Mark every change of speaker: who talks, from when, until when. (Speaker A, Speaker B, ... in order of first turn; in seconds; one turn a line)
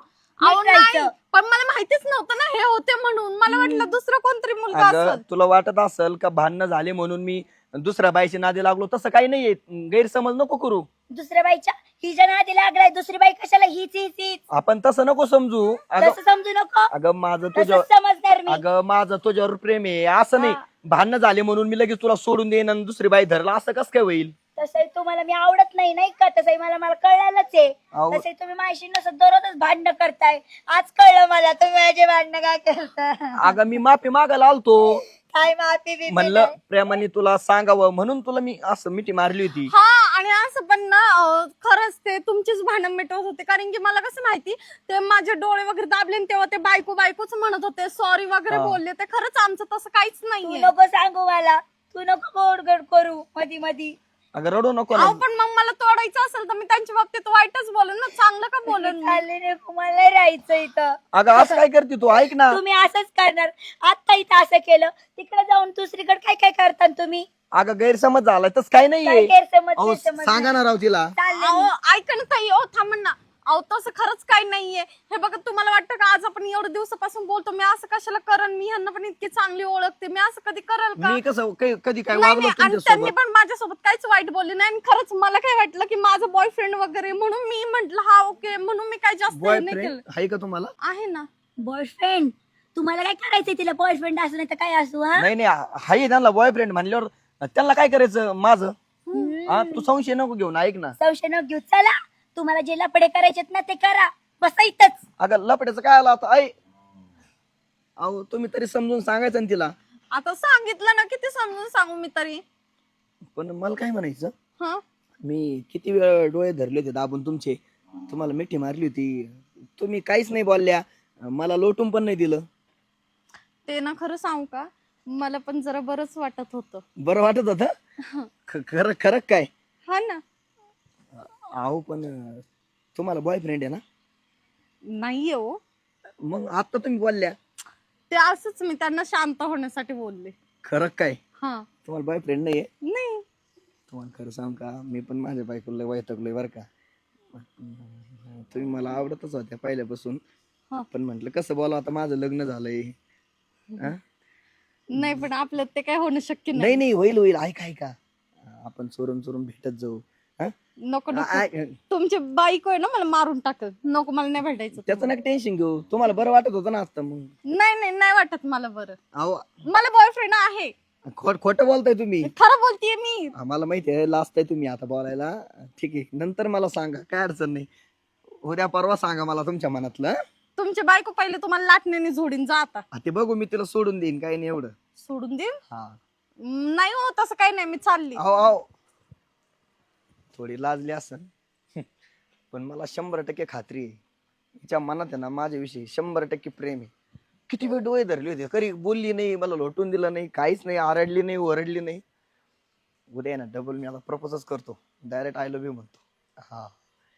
Speaker A: 0.4-5.2
Speaker B: 0.4-1.1
Speaker B: 3.5-3.8
Speaker C: 4.7-10.9
Speaker B: 11.1-14.4
Speaker C: 14.5-16.2
Speaker B: 16.0-16.9
Speaker C: 16.9-17.9
Speaker B: 17.5-18.6
Speaker C: 18.5-24.3
Speaker B: 20.4-20.6
Speaker B: 24.6-33.6
Speaker C: 27.9-28.2
Speaker C: 33.4-35.0
Speaker B: 35.1-36.5
Speaker C: 36.1-39.7
Speaker A: 39.7-50.7
Speaker C: 48.5-48.8
Speaker B: 50.4-54.0
Speaker C: 54.3-55.2
Speaker A: 54.9-59.2
Speaker B: 58.7-60.9
Speaker C: 61.1-62.6
Speaker B: 62.5-67.3
Speaker C: 67.5-71.1
Speaker B: 69.0-70.6
Speaker B: 71.1-71.7
Speaker A: 71.3-81.2
Speaker C: 81.0-83.1
Speaker A: 82.1-90.0
Speaker C: 89.3-90.7
Speaker A: 90.8-91.3
Speaker B: 91.6-95.3
Speaker C: 95.2-98.7
Speaker A: 99.1-99.3
Speaker B: 99.1-99.9
Speaker C: 99.5-100.9
Speaker B: 101.0-105.0
Speaker C: 105.2-106.5
Speaker C: 108.0-109.7
Speaker A: 110.1-112.4
Speaker C: 113.3-114.3
Speaker C: 115.2-122.4
Speaker A: 123.7-126.8
Speaker C: 127.0-127.7
Speaker C: 128.5-129.5
Speaker A: 129.9-130.2
Speaker C: 131.2-132.4
Speaker C: 132.9-133.8
Speaker A: 134.9-135.6
Speaker C: 136.2-137.3
Speaker A: 138.1-140.3
Speaker C: 140.6-141.2
Speaker A: 141.4-141.7
Speaker C: 141.8-142.7
Speaker A: 142.9-143.2
Speaker C: 143.9-146.7
Speaker C: 147.3-150.2
Speaker C: 150.9-152.9
Speaker A: 154.9-156.8
Speaker C: 154.9-155.2
Speaker C: 156.5-157.9
Speaker C: 158.4-160.5
Speaker A: 160.9-165.1
Speaker C: 161.1-161.8
Speaker C: 164.8-167.3
Speaker A: 167.5-169.0
Speaker C: 169.1-169.5
Speaker A: 169.7-170.7
Speaker C: 171.1-172.3
Speaker A: 172.2-173.3
Speaker C: 173.3-177.7
Speaker C: 178.4-180.2
Speaker A: 180.6-182.8
Speaker C: 182.9-184.7
Speaker A: 185.0-185.6
Speaker C: 185.7-186.0
Speaker A: 186.4-188.2
Speaker C: 188.2-188.6
Speaker C: 190.3-191.8
Speaker C: 192.5-194.0
Speaker C: 194.6-196.9
Speaker C: 197.5-202.0
Speaker C: 203.1-206.7